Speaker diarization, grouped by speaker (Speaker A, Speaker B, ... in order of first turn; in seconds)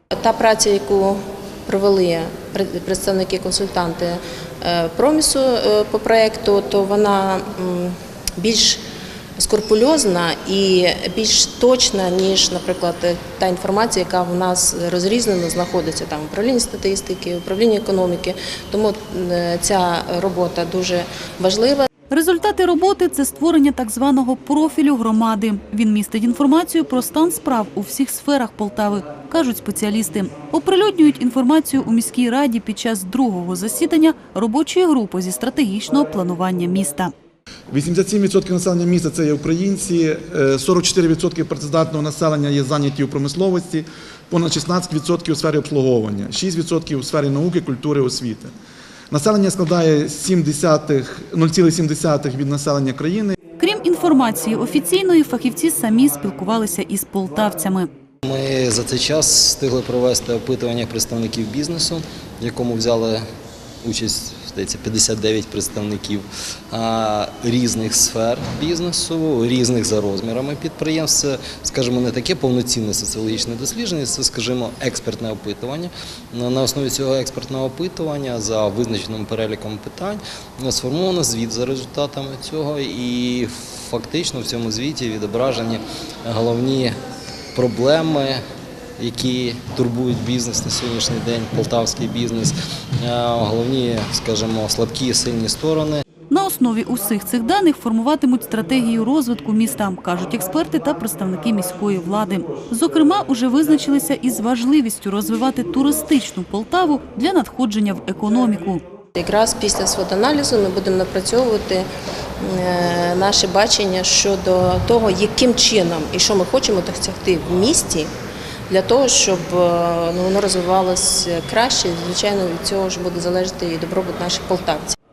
Speaker A: 0.1-8.8, 9.4-21.9, 109.2-111.8, 112.4-118.1, 118.7-125.0
Speaker B: 22.1-37.1, 53.6-57.9, 96.3-108.8
Speaker C: 37.7-48.5, 49.1-53.3
Speaker D: 58.2-63.2, 63.8-86.9, 87.5-88.4, 89.0-96.0